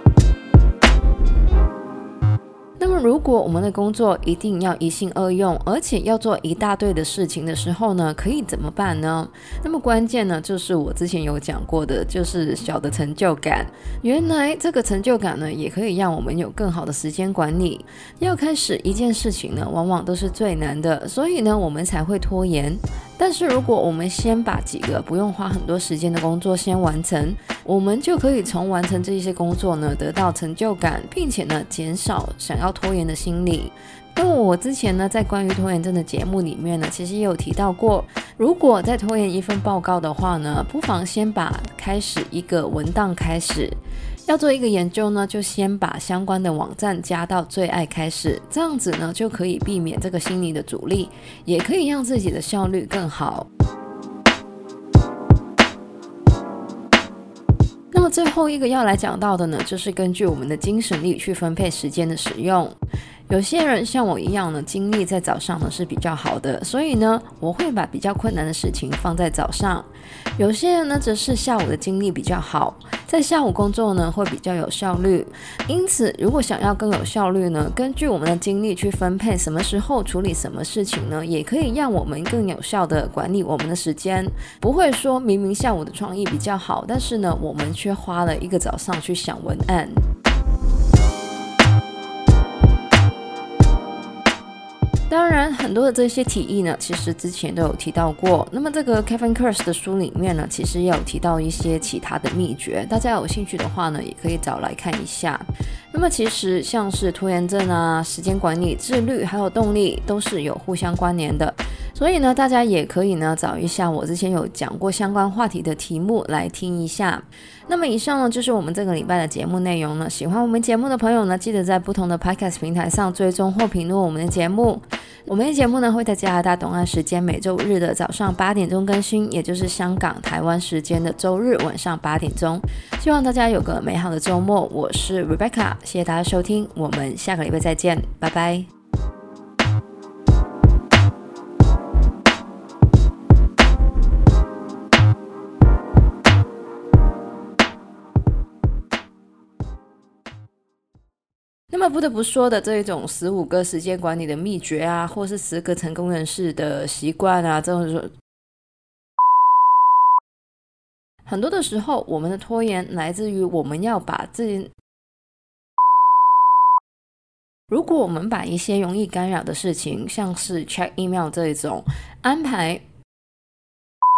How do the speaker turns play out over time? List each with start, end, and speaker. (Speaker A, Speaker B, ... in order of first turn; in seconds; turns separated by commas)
Speaker A: 2.8-53.5, Speaker A: 57.9-62.8, Speaker A: 63.3-90.1, Speaker A: 95.1-138.7, Speaker A: 151.7-158.1, Speaker A: 161.3-164.7, Speaker A: 167.7-172.8